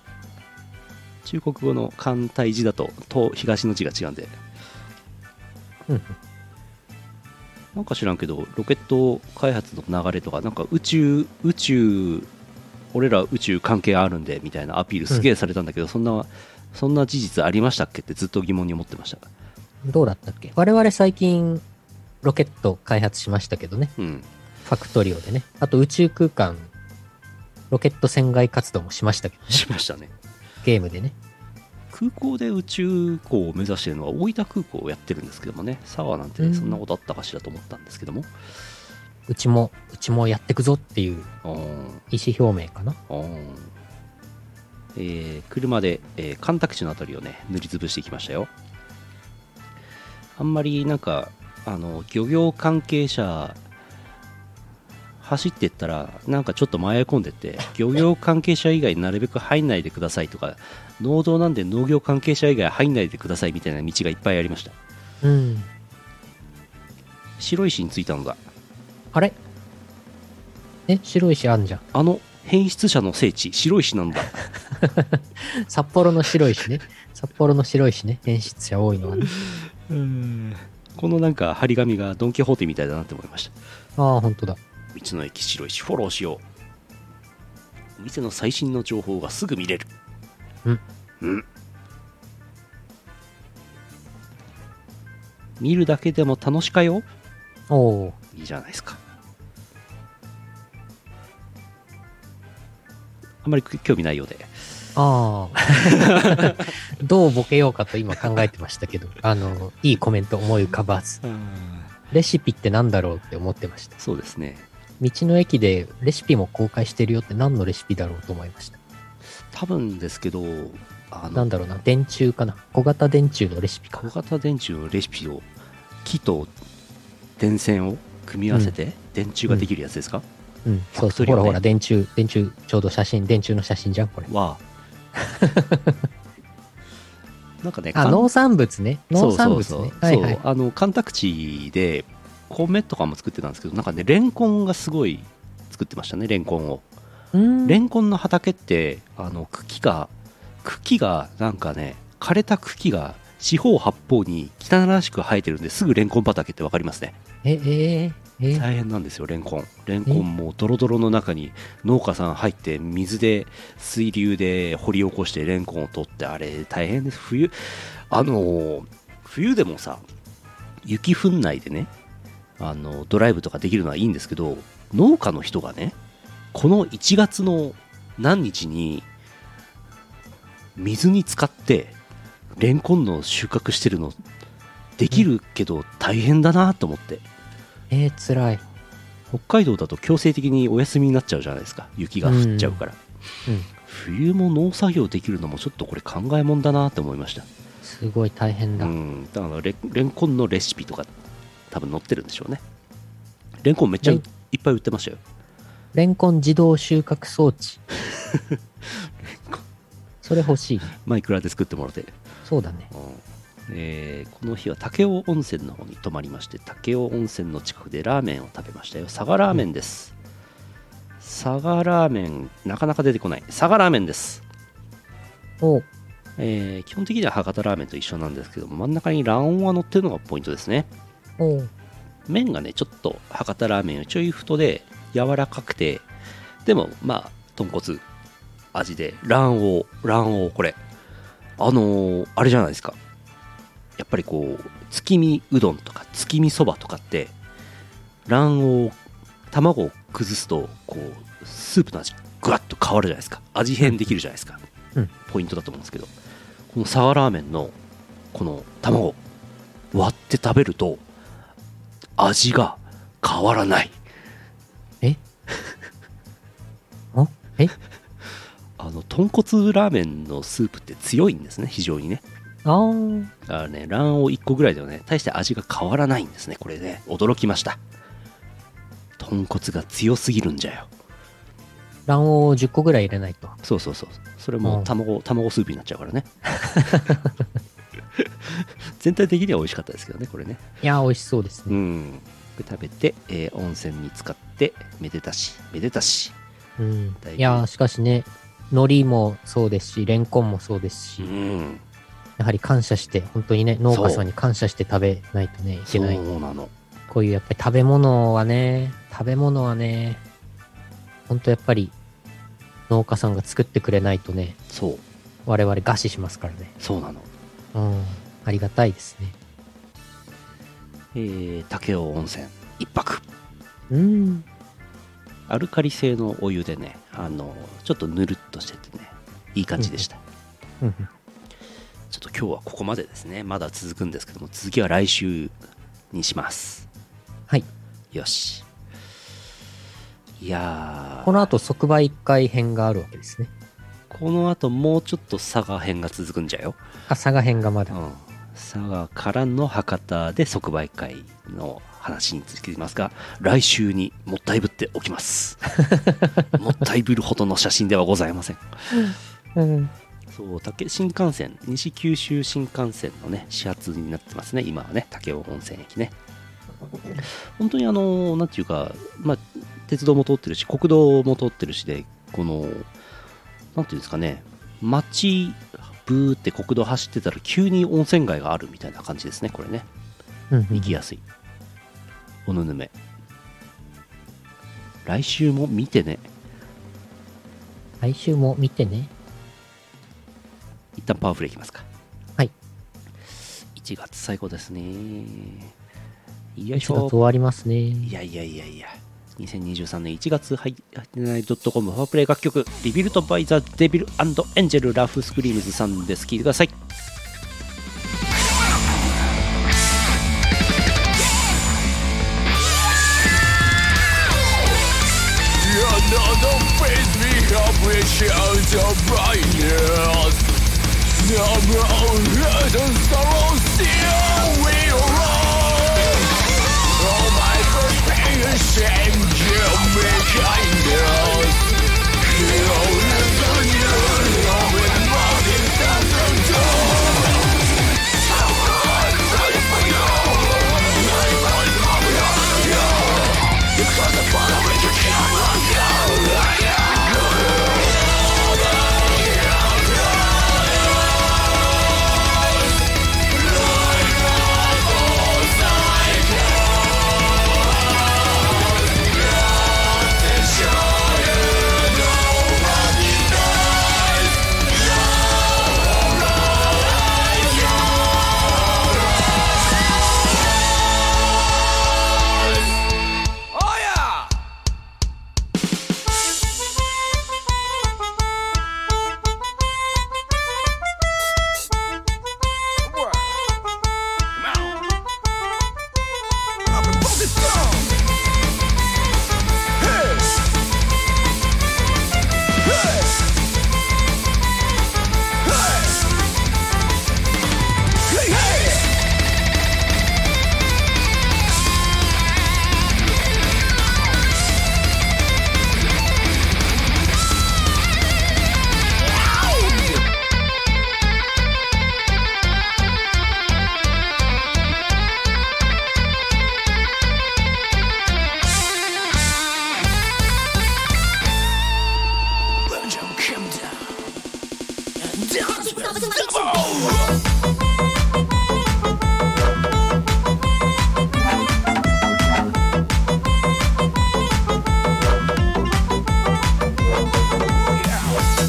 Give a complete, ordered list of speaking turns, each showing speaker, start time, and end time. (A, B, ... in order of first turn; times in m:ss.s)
0:01.2-0:04.4 A
0:05.9-0:06.2 B
0:07.7-0:12.3 A
0:12.9-0:19.3 A
0:19.8-0:21.6 B
0:22.2-0:23.9 B
0:24.0-0:24.3 A
0:24.6-0:26.7 B
0:27.7-0:29.6 B
0:29.5-0:30.1 A
0:30.6-0:31.1 B
0:31.9-0:38.3 A
0:36.4-0:36.8 B
0:39.3-0:41.3 B
0:41.4-0:42.0 A
0:42.1-0:43.0 B
0:43.1-0:43.7 A
0:44.9-0:48.5 A
0:50.4-0:53.6 A
0:55.2-1:04.7 A
1:05.2-1:05.7 B
1:07.4-1:08.4 A
1:10.9-1:11.8 B
1:11.9-1:14.4 A
1:14.8-1:19.3 B
1:19.2-1:23.5 A
1:24.0-1:24.6 B
1:24.9-1:26.4 A
1:28.0-1:29.9 A
1:31.2-1:31.4 A
1:35.6-1:37.0 A
1:37.7-1:38.2 B
1:38.3-1:39.0 A
1:43.4-1:44.6 A
1:44.9-1:51.2 B
1:45.8-1:46.7 A
1:51.2-1:51.9 A
1:52.1-1:54.0 B
1:54.0-1:54.7 A
1:55.0-1:58.8 B
1:59.5-2:01.5 A
2:01.3-2:04.0 B
2:04.0-2:05.5 A
2:06.0-2:06.5 A
2:07.4-2:10.2 A
2:10.6-2:14.3 B
2:10.9-2:11.6 A
2:14.3-2:14.6 A
2:15.2-2:16.0 B
2:17.6-2:18.3 A
2:17.9-2:20.4 B
2:19.1-2:26.8 A
2:27.3-2:27.8 B
2:27.6-2:30.1 A
2:30.6-2:37.2 A
2:37.4-2:38.6 B
2:38.5-2:50.0 A
2:50.8-2:51.9 A
2:52.6-2:56.0 A
2:56.5-2:59.1 A
3:00.8-3:02.0 A
3:02.6-3:04.2 A
3:05.0-3:07.2 A
3:07.9-3:08.6 B
3:09.3-3:13.0 A
3:12.2-3:12.8 B
3:13.8-3:17.5 A
3:17.8-3:18.9 B
3:18.8-3:21.1 A
3:21.7-3:22.6 A
3:23.6-3:25.2 A
3:25.9-3:27.8 B
3:28.1-3:29.6 A
3:30.2-3:31.0 B
3:31.0-3:32.2 A
3:32.4-3:32.9 B
3:32.9-3:40.1 A
3:41.2-3:44.4 A
3:45.6-3:45.9 B
3:46.4-3:50.9 A
3:51.4-3:51.7 B
3:52.3-3:56.0 A
3:56.6-3:58.0 A
3:58.7-4:00.8 A
4:01.6-4:03.0 A
4:04.0-4:07.3 A
4:08.2-4:09.0 A
4:09.5-4:14.6 A
4:15.2-4:16.1 A
4:16.7-4:17.7 A
4:18.3-4:19.2 A
4:19.9-4:21.0 A
4:22.2-4:24.0 A
4:27.1-4:27.7 B
4:28.8-4:32.2 A
4:32.6-4:33.3 B
4:33.4-4:37.8 A
4:39.2-4:40.9 A
4:42.1-4:43.6 B
4:43.6-4:46.3 A
4:44.6-4:44.9 B
4:46.7-4:47.2 B
4:48.2-4:50.6 A
4:50.8-4:51.8 B
4:51.7-4:56.3 A
4:56.8-5:01.3 B
4:57.2-4:57.6 A
5:01.2-5:01.8 A
5:02.4-5:06.2 B
5:03.9-5:04.2 A
5:05.9-5:06.7 A
5:07.1-5:10.2 B
5:11.3-5:11.9 B
5:12.9-5:14.6 B
5:14.7-5:15.0 A
5:15.4-5:16.7 B
5:16.8-5:17.3 A
5:17.7-5:19.3 B
5:21.1-5:23.2 A
5:23.9-5:24.4 B
5:25.5-5:30.2 A
5:29.8-5:30.0 B
5:30.8-5:31.1 B
5:32.1-5:35.6 A
5:36.1-5:36.9 A
5:38.1-5:38.6 A
5:40.4-5:41.5 A
5:41.2-5:43.5 B
5:44.1-5:46.8 A
5:47.1-5:48.0 B
5:47.9-5:55.6 A
5:56.5-5:59.1 A
5:58.9-5:59.9 B
6:00.3-6:06.1 A
6:07.6-6:12.9 A
6:13.7-6:19.9 A
6:20.5-6:21.0 B
6:20.7-6:21.2 A
6:22.4-6:22.9 A
6:25.0-6:26.3 A
6:28.0-6:29.1 B
6:31.0-6:31.8 A
6:33.7-6:35.7 A
6:36.6-6:37.2 A
6:36.7-6:38.1 B
6:38.0-6:46.8 A
6:55.6-7:00.4 C
7:01.2-7:06.3 C
7:07.0-7:17.5 C
7:18.3-7:27.9 C
7:28.8-7:30.4 C
7:33.5-7:36.8 C
7:39.9-7:44.3 C
7:46.9-7:47.8 C
7:53.5-7:54.3 C
8:06.8-8:07.9 C
8:42.8-8:43.9 A
8:45.1-8:46.9 A